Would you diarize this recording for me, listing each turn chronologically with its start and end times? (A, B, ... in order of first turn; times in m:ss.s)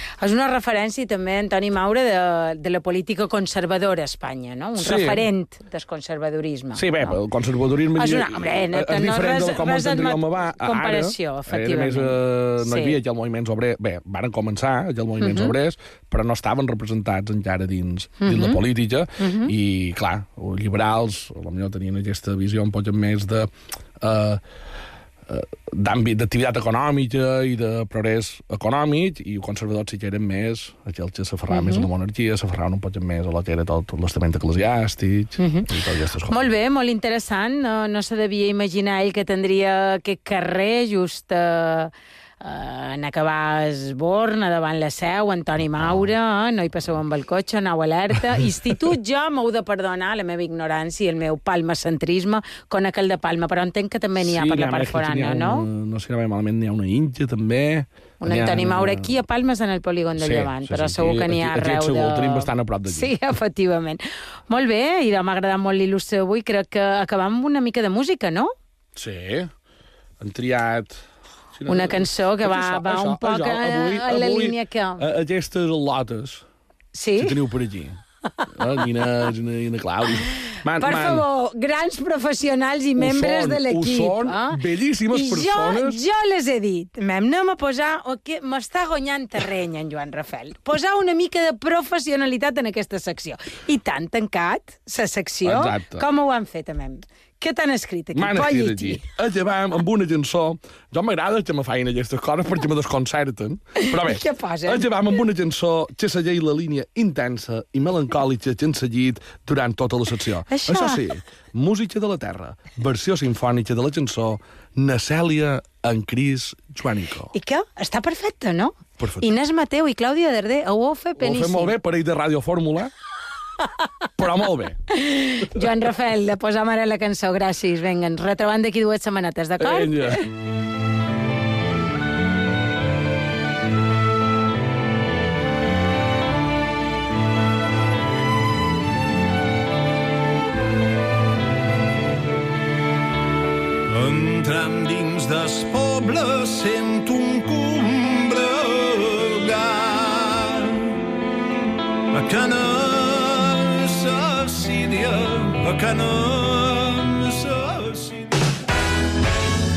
0:00.2-0:07.2 A
0:04.8-0:05.2 B
0:06.7-0:24.4 B
0:07.9-0:13.0 A
0:15.2-0:15.5 A
0:18.2-0:18.6 A
0:19.2-0:19.5 A
0:25.3-0:36.5 B
0:31.5-0:31.9 A
0:35.4-0:35.7 A
0:36.3-0:55.7 A
0:54.2-0:59.1 B
0:58.2-1:08.5 A
1:00.2-1:03.1 B
1:09.0-1:09.5 B
1:10.2-1:16.4 B
1:11.7-1:15.0 A
1:16.9-1:17.4 A
1:17.2-1:21.2 B
1:18.4-1:18.8 A
1:20.4-1:39.0 A
1:23.0-1:26.0 B
1:35.4-1:36.0 B
1:38.1-1:57.3 B
1:43.8-1:44.9 A
1:50.5-1:51.1 A
1:57.3-2:01.7 A
1:59.0-1:59.2 B
2:01.2-2:02.9 B
2:04.2-2:04.8 B
2:04.9-2:10.3 A
2:09.6-2:10.2 B
2:23.9-2:31.0 C
2:32.1-2:38.3 C